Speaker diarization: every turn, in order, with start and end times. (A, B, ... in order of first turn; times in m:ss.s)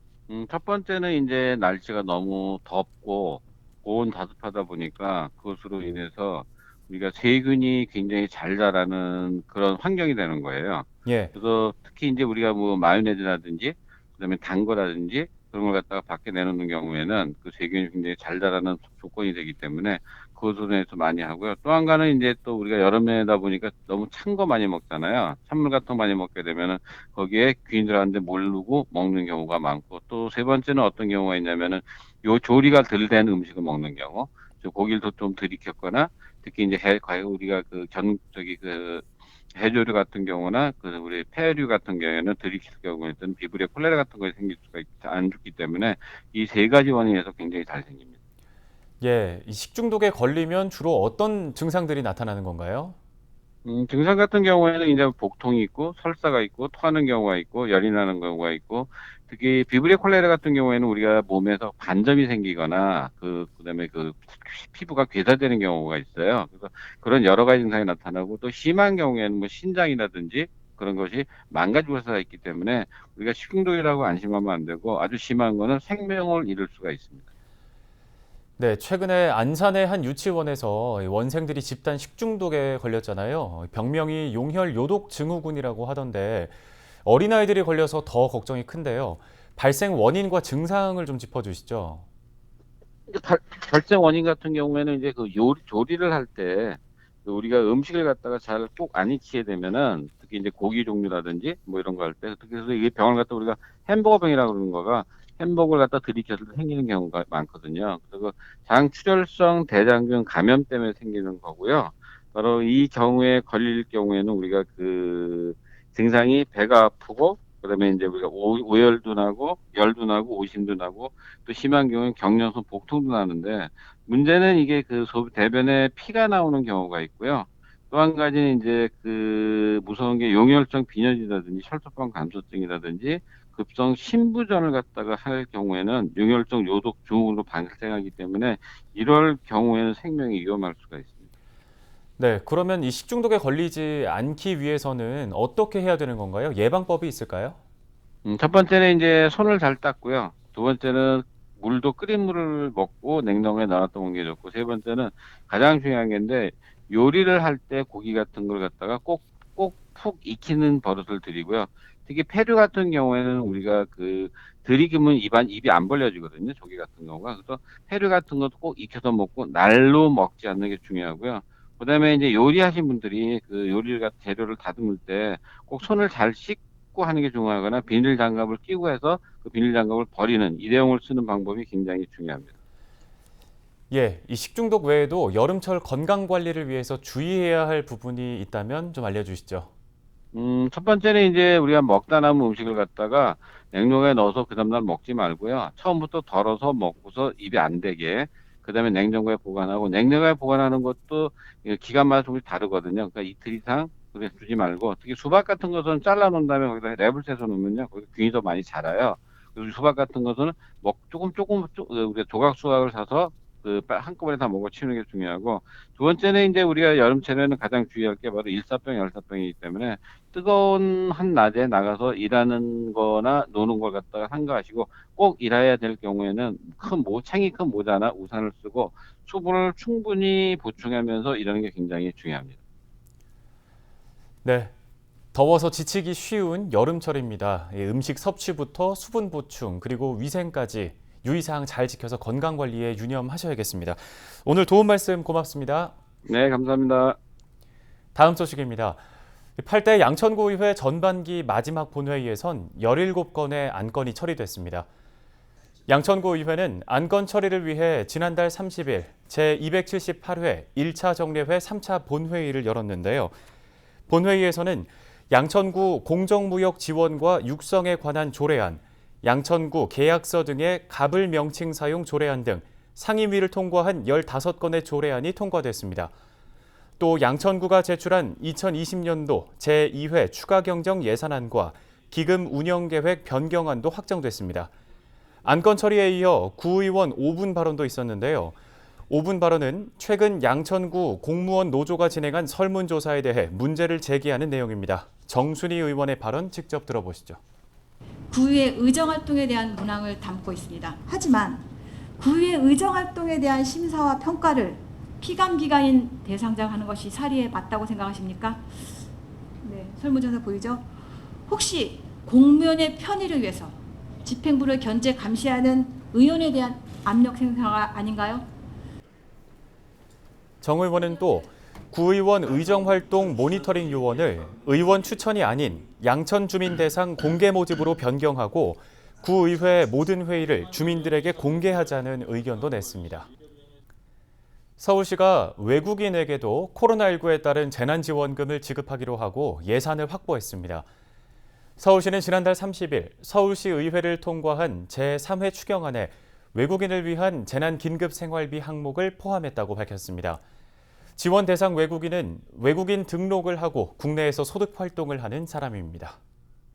0:00.3-0:48.1 A
0:11.0-0:11.3 B
0:49.0-0:53.0 B
0:53.6-1:17.2 A
1:18.6-1:26.5 B
1:27.0-1:32.0 B
1:33.1-2:21.3 A
2:22.2-2:27.6 B
2:28.2-3:02.5 A
3:03.9-3:09.7 B
3:10.3-3:52.6 A
3:54.4-3:54.7 B
3:55.3-4:05.9 B
4:06.3-4:07.2 A
4:08.1-4:09.0 B
4:09.6-4:14.9 B
4:15.9-4:23.3 B
4:24.1-4:36.1 B
4:37.0-4:44.7 B
4:45.4-4:48.6 B
4:49.1-4:57.4 B
4:58.3-5:01.7 C
5:02.2-5:08.7 C
5:09.6-5:10.9 C
5:11.5-5:18.5 C
5:20.6-5:33.3 B
5:34.8-5:40.9 B
5:41.8-5:50.4 B
5:51.2-5:56.2 B